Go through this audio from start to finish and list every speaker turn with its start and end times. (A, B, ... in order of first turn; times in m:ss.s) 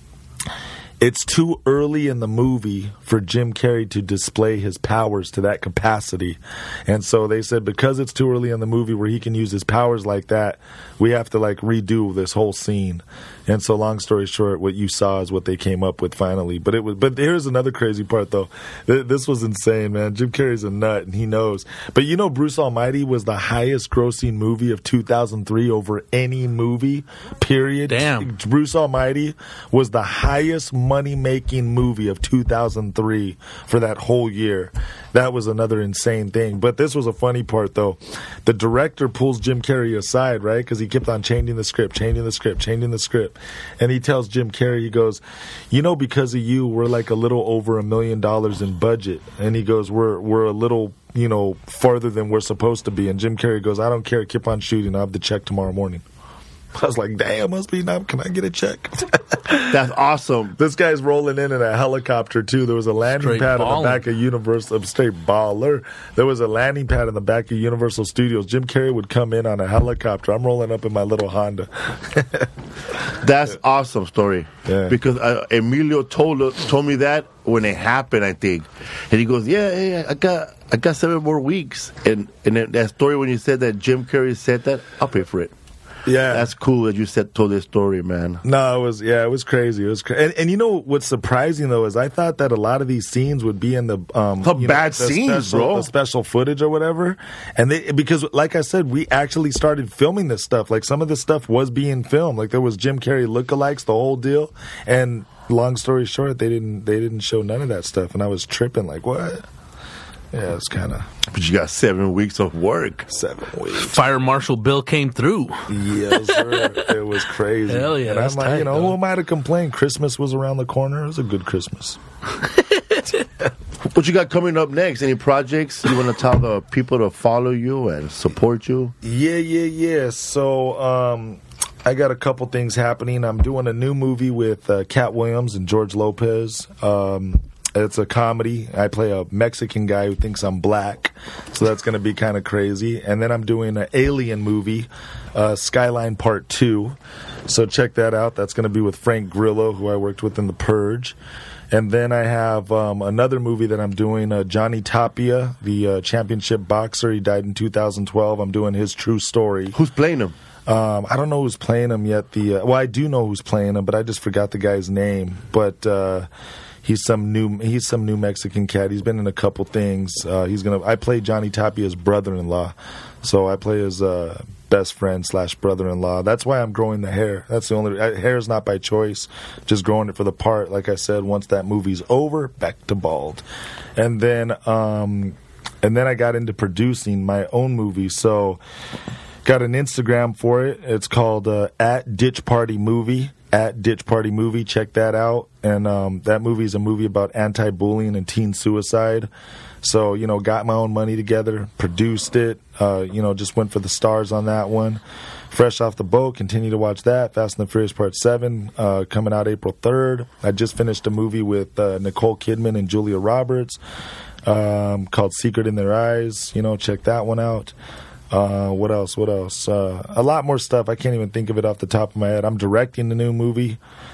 0:01.0-0:56.0 A
0:27.9-0:28.3 B
0:56.7-0:59.8 A
0:59.7-1:00.6 C
1:00.6-1:12.5 A
1:03.2-1:04.0 B
1:13.2-1:25.5 C
1:14.6-1:15.0 A
1:26.1-1:26.5 A
1:26.3-1:28.4 C
1:28.4-1:49.4 A
1:34.4-1:35.9 C
1:50.3-1:51.1 A
1:51.3-1:53.1 C
1:53.1-1:54.0 A
1:53.7-1:55.7 B
1:55.7-2:02.0 A
1:56.3-1:56.8 B
1:57.7-1:59.0 B
2:02.7-2:03.0 B
2:03.9-2:08.9 C
2:09.0-2:27.0 A
2:27.5-2:31.2 A
2:31.7-2:39.8 A
2:39.7-2:40.3 C
2:40.7-2:46.3 A
2:46.8-3:03.4 A
3:04.0-3:08.6 A
3:09.4-3:19.3 A
3:19.8-3:33.8 A
3:34.4-3:37.7 A
3:38.3-3:43.8 A